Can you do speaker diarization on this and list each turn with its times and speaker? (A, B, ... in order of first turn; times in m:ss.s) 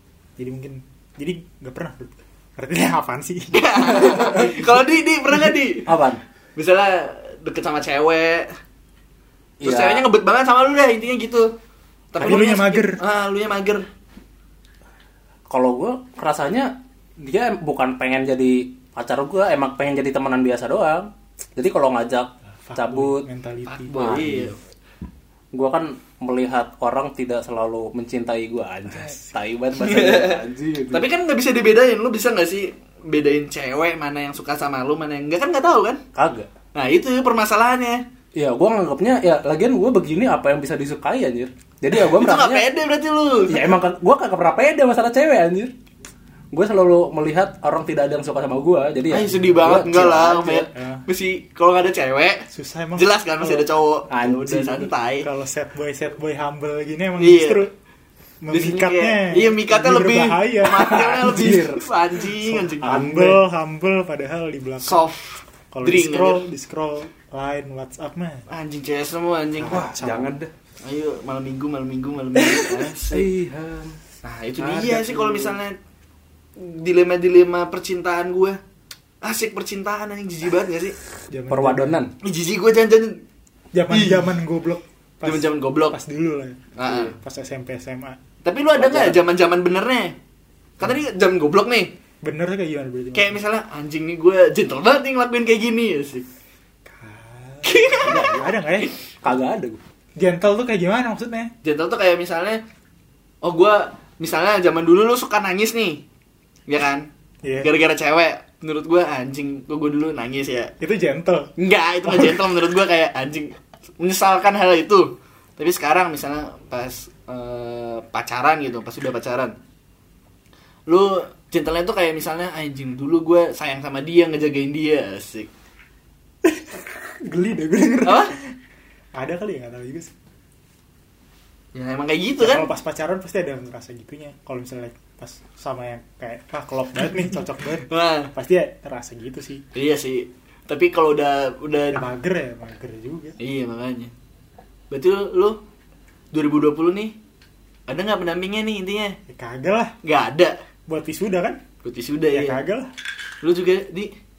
0:00.4-0:04.7 A
0:03.5-0:05.9 B
0:04.1-0:04.4 C
0:05.8-0:06.2 C
0:06.6-0:08.5 B
0:09.6-0:10.0 C
0:09.6-0:11.5 B
0:12.1-0:13.8 B
0:12.2-0:13.0 A
0:15.5-0:23.2 C
0:22.6-0:23.9 A
0:23.7-0:24.6 B
0:23.9-0:24.5 C
0:25.5-0:31.0 C
0:28.9-0:29.3 A
0:29.8-0:36.0 B
0:36.1-0:36.5 C
0:36.7-0:38.0 B
0:38.3-0:42.6 C
0:42.0-0:43.6 B
0:43.5-0:45.7 C
0:46.5-0:50.7 C
0:49.1-0:55.3 B
0:50.7-0:51.0 A
0:52.5-0:53.7 A
0:54.1-0:54.9 C
0:55.2-0:57.7 A
0:57.2-0:57.6 B
0:58.4-1:01.6 A
0:58.5-1:03.1 B
1:00.7-1:01.8 C
1:02.5-1:05.1 A
1:02.8-1:03.4 C
1:04.8-1:06.4 B
1:05.7-1:08.4 A
1:08.5-1:09.9 B
1:09.6-1:10.4 A
1:09.7-1:10.5 C
1:10.8-1:13.3 B
1:12.4-1:14.0 C
1:14.2-1:15.8 B
1:14.6-1:15.6 C
1:16.6-1:18.6 B
1:19.2-1:20.9 B
1:21.3-1:22.0 A
1:21.5-1:22.1 C
1:22.2-1:23.2 B
1:23.7-1:28.2 A
1:23.9-1:24.3 B
1:25.2-1:26.0 B
1:26.8-1:27.1 B
1:28.4-1:30.1 B
1:28.8-1:29.2 C
1:30.8-1:31.9 B
1:32.2-1:33.4 A
1:33.1-1:36.2 B
1:36.8-1:38.9 A
1:37.6-1:38.3 B
1:38.0-1:38.4 C
1:39.2-1:39.8 C
1:40.2-1:41.5 A
1:41.6-1:42.6 B
1:43.4-1:46.0 B
1:46.7-1:47.1 B
1:47.4-1:47.7 A
1:47.6-1:50.7 B
1:50.8-1:51.5 A
1:51.6-1:59.5 B
1:52.0-1:52.4 A
2:00.9-2:05.5 B
2:06.4-2:08.5 A
2:08.0-2:08.4 B
2:09.1-2:10.1 A
2:11.7-2:12.7 B
2:12.4-2:19.6 A
2:17.9-2:18.3 B
2:19.7-2:22.0 B
2:21.9-2:23.4 A
2:23.4-2:24.1 B
2:24.9-2:25.6 B
2:26.3-2:27.2 B
2:27.9-2:29.2 B
2:29.3-2:29.9 A
2:30.0-2:30.6 B
2:30.9-2:31.6 A
2:31.8-2:32.6 B
2:32.3-2:32.9 A
2:33.4-2:34.1 B